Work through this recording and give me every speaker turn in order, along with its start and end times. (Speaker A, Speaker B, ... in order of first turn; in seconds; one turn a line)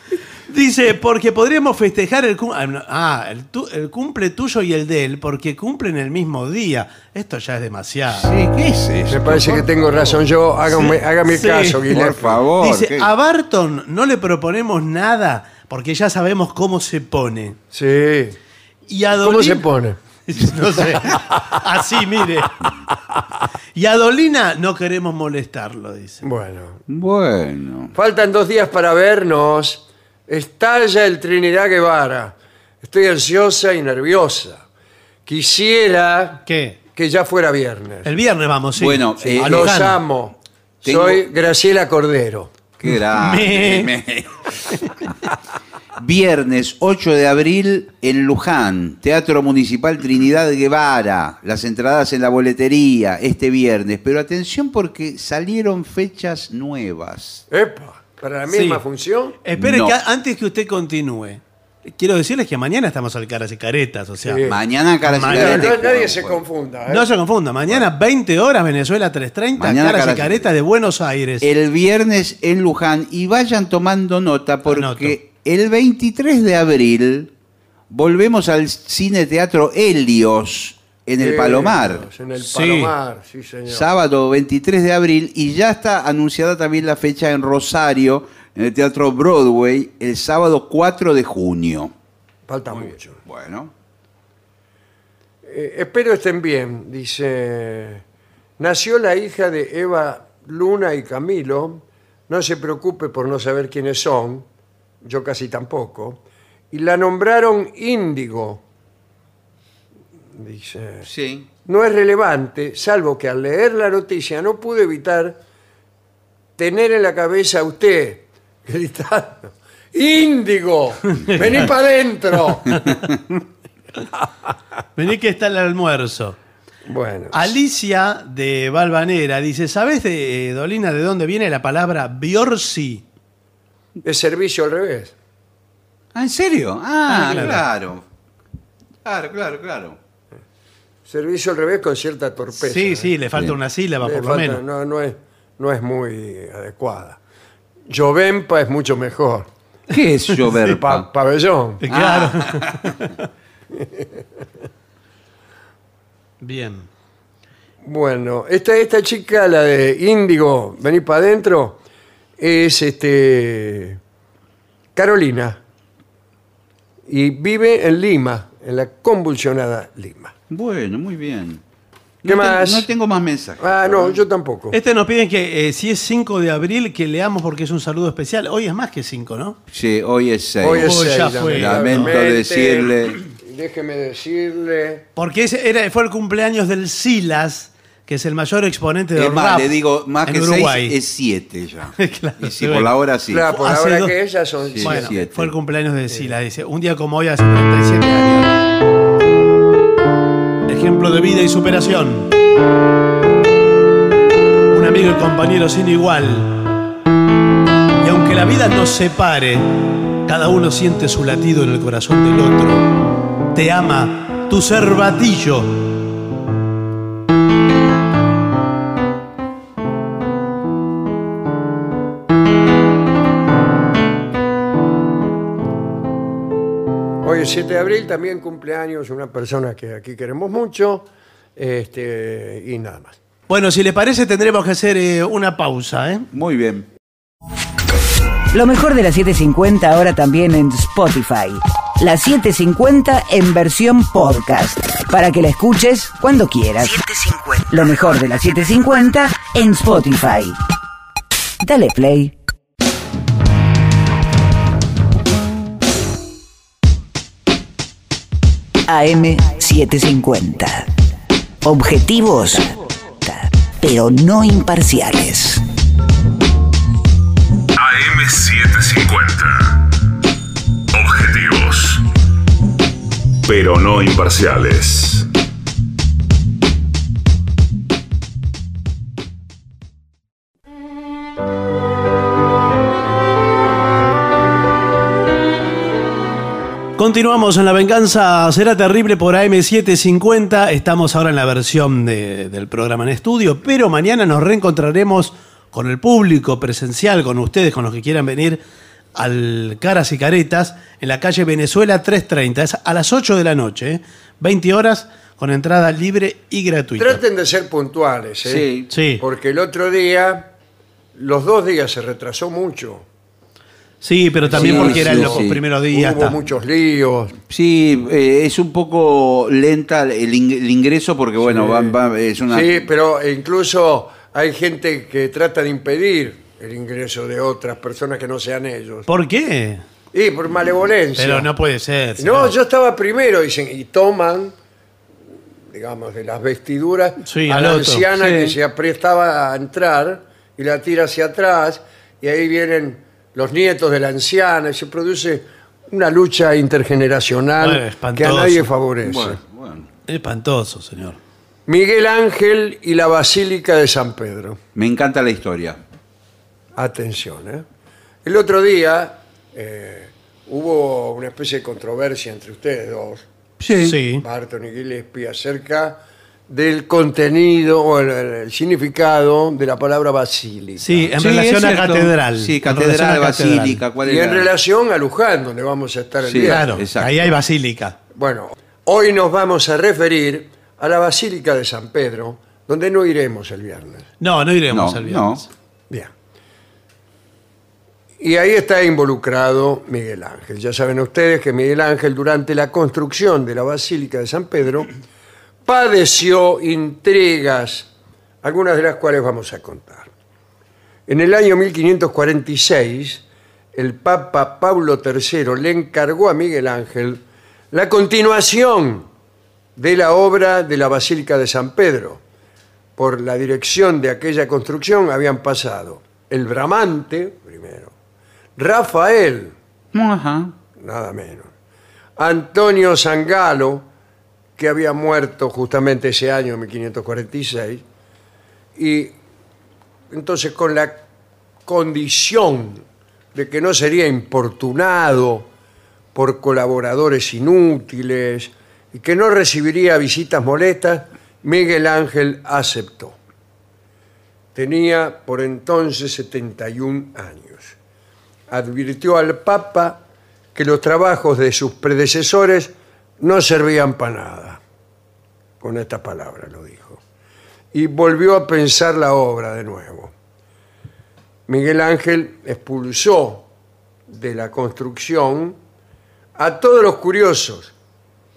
Speaker A: 0.5-8.3
Speaker B: 8.1-10.2
Speaker C: 9.1-12.4
Speaker A: 11.2-11.9
Speaker B: 11.9-13.1
Speaker A: 12.6-17.6
Speaker C: 17.7-18.4
Speaker A: 18.9-19.7
Speaker C: 19.2-20.0
Speaker A: 20.2-22.6
Speaker C: 20.7-21.5
Speaker A: 23.7-26.2
Speaker C: 26.2-26.8
Speaker B: 26.9-27.9
Speaker C: 27.9-34.6
Speaker C: 35.2-38.1
Speaker A: 36.5-36.8
Speaker A: 38.0-40.0
Speaker B: 38.8-39.8
Speaker C: 39.3-42.5
Speaker B: 40.8-41.2
Speaker B: 42.8-44.9
Speaker A: 43.1-43.9
Speaker B: 46.0-57.4
Speaker C: 57.5-59.4
Speaker A: 58.5-58.8
Speaker A: 59.4-64.4
Speaker B: 59.6-60.0
Speaker C: 64.2-64.6
Speaker B: 64.4-66.4
Speaker A: 65.0-65.7
Speaker C: 65.2-67.1
Speaker A: 66.9-71.5
Speaker B: 69.6-70.4
Speaker B: 71.4-77.3
Speaker A: 74.7-75.2
Speaker B: 77.9-82.0
Speaker C: 81.2-83.9
Speaker A: 82.4-82.9
Speaker B: 83.7-91.9
Speaker C: 92.5-93.2
Speaker B: 92.7-93.7
Speaker C: 95.4-98.0
Speaker C: 98.6-104.5
Speaker C: 105.0-108.6
Speaker C: 110.3-111.1
Speaker B: 111.0-111.5
Speaker C: 111.6-115.4
Speaker C: 116.6-123.0
Speaker A: 121.2-121.6
Speaker A: 122.7-123.0
Speaker A: 125.0-126.4
Speaker C: 126.8-127.5
Speaker A: 127.3-133.0
Speaker C: 134.0-135.1
Speaker B: 136.1-138.0
Speaker A: 137.1-137.6
Speaker B: 139.0-140.0
Speaker C: 141.1-143.1
Speaker A: 142.6-144.6
Speaker C: 144.0-147.2
Speaker C: 147.9-149.5
Speaker B: 149.9-151.1
Speaker C: 150.6-151.8
Speaker A: 151.8-153.2
Speaker B: 151.9-152.9
Speaker C: 153.7-154.2
Speaker A: 156.4-156.9
Speaker C: 157.8-161.8
Speaker C: 162.4-164.0
Speaker C: 164.9-165.6
Speaker C: 167.1-170.3
Speaker B: 170.5-171.6
Speaker B: 172.2-174.2
Speaker C: 172.2-172.9
Speaker C: 173.6-174.8
Speaker A: 174.7-179.6
Speaker B: 179.7-183.2
Speaker C: 180.6-185.1
Speaker A: 180.8-182.1
Speaker A: 185.2-189.7
Speaker B: 189.2-193.4
Speaker A: 190.2-190.9
Speaker A: 192.0-192.9
Speaker C: 193.3-195.2
Speaker A: 193.5-194.1
Speaker B: 194.7-195.5
Speaker A: 194.8-198.5
Speaker A: 200.7-202.3
Speaker A: 204.7-206.5
Speaker A: 207.9-212.9
Speaker A: 213.5-215.8
Speaker C: 227.2-233.2
Speaker A: 233.5-236.2
Speaker B: 236.3-236.9
Speaker D: 238.5-250.6
Speaker D: 251.6-252.3
Speaker D: 258.9-260.9
Speaker D: 261.6-265.6
Speaker E: 267.7-269.9
Speaker E: 270.9-272.0
Speaker E: 273.4-275.3
Speaker A: 287.0-298.6
Speaker A: 299.1-307.2
Speaker C: 307.0-308.7
Speaker B: 308.4-308.9
Speaker A: 308.9-309.2
Speaker C: 309.2-310.5
Speaker C: 311.1-313.1
Speaker A: 314.0-316.4
Speaker C: 314.4-317.4
Speaker B: 314.5-315.6
Speaker B: 317.5-322.7
Speaker C: 321.5-321.9
Speaker C: 322.5-329.1
Speaker A: 329.1-329.8
Speaker C: 330.1-331.5
Speaker A: 331.2-332.5
Speaker C: 332.2-334.5
Speaker C: 335.7-349.4
Speaker A: 337.2-338.1
Speaker A: 347.6-348.7
Speaker B: 349.0-349.9
Speaker A: 350.1-351.2
Speaker C: 351.7-354.6
Speaker B: 354.7-355.8
Speaker C: 356.8-357.6
Speaker C: 358.2-363.2
Speaker B: 363.6-364.0
Speaker A: 363.8-364.2
Speaker C: 364.2-371.1
Speaker A: 370.8-373.8
Speaker B: 371.2-374.5
Speaker C: 374.0-376.8
Speaker B: 376.2-377.3
Speaker A: 376.4-377.9
Speaker C: 378.1-384.1
Speaker A: 384.2-385.5
Speaker B: 384.7-385.4
Speaker C: 388.2-394.9
Speaker C: 395.6-397.9
Speaker C: 398.4-400.1
Speaker C: 401.1-409.1
Speaker C: 409.8-412.2
Speaker C: 413.0-417.9
Speaker C: 418.6-419.6
Speaker B: 419.9-420.5
Speaker C: 420.8-421.5
Speaker C: 422.2-423.9
Speaker C: 424.6-427.8
Speaker C: 428.7-429.2
Speaker C: 430.1-431.0
Speaker C: 431.6-435.5
Speaker C: 436.1-443.2
Speaker C: 444.5-447.8
Speaker C: 448.5-454.6
Speaker C: 455.6-457.0
Speaker C: 457.7-460.1
Speaker C: 461.5-463.5
Speaker C: 464.1-465.6
Speaker C: 466.4-467.7